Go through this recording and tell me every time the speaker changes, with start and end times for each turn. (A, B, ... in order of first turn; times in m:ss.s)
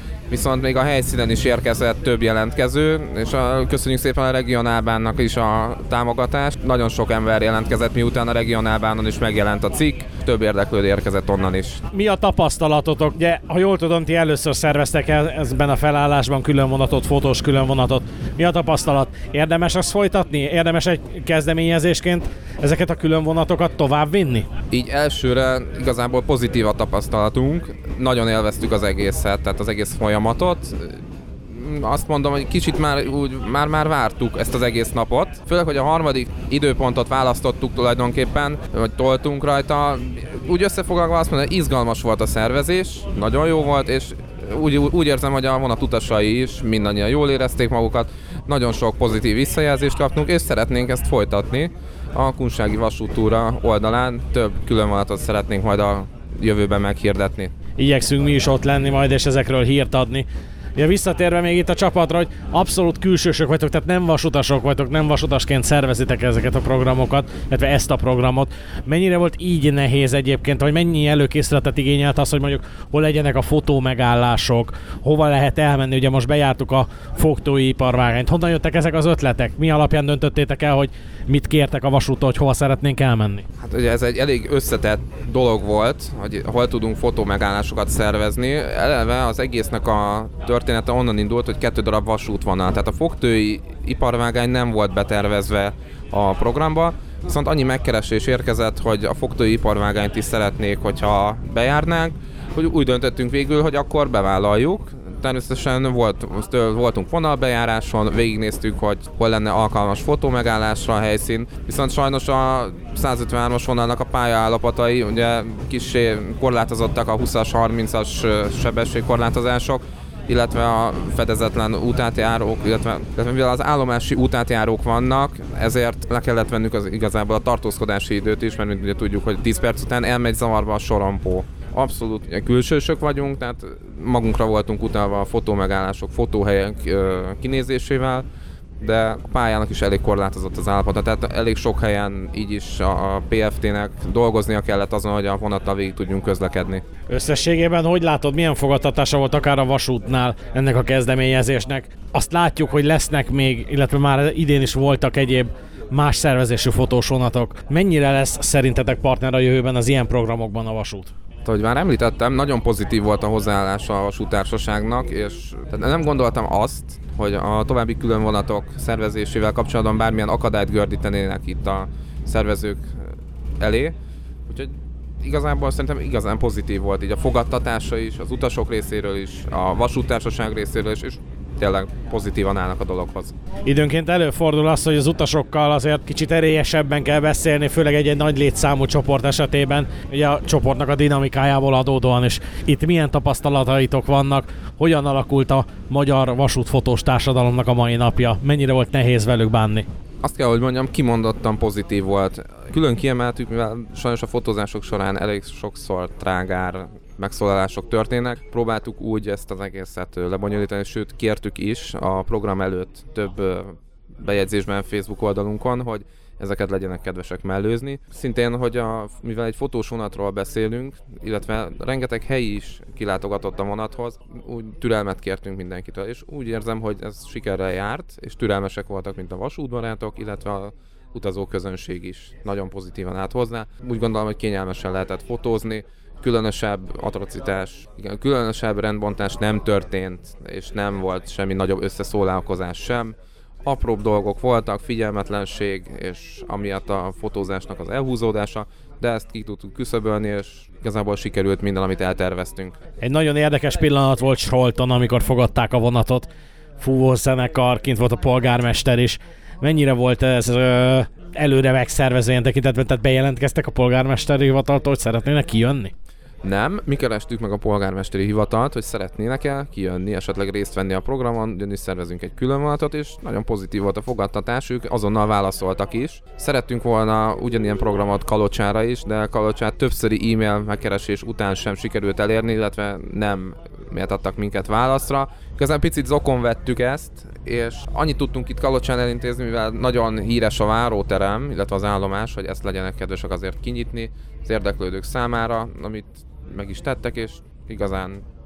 0:00.3-0:11.8 A
0:11.9-0:24.5 B
0:24.7-0:57.5 A
0:57.8-1:23.4 B
1:23.6-2:18.2 A
2:18.8-2:26.8 A
2:27.1-2:41.1 B
2:41.4-2:53.0 A
2:53.6-2:53.9 A
2:54.5-3:03.4 A
3:03.7-3:19.9 B
3:20.2-4:12.8 A
4:13.0-4:16.3 B
4:16.8-4:25.9 B
4:26.4-4:58.2 A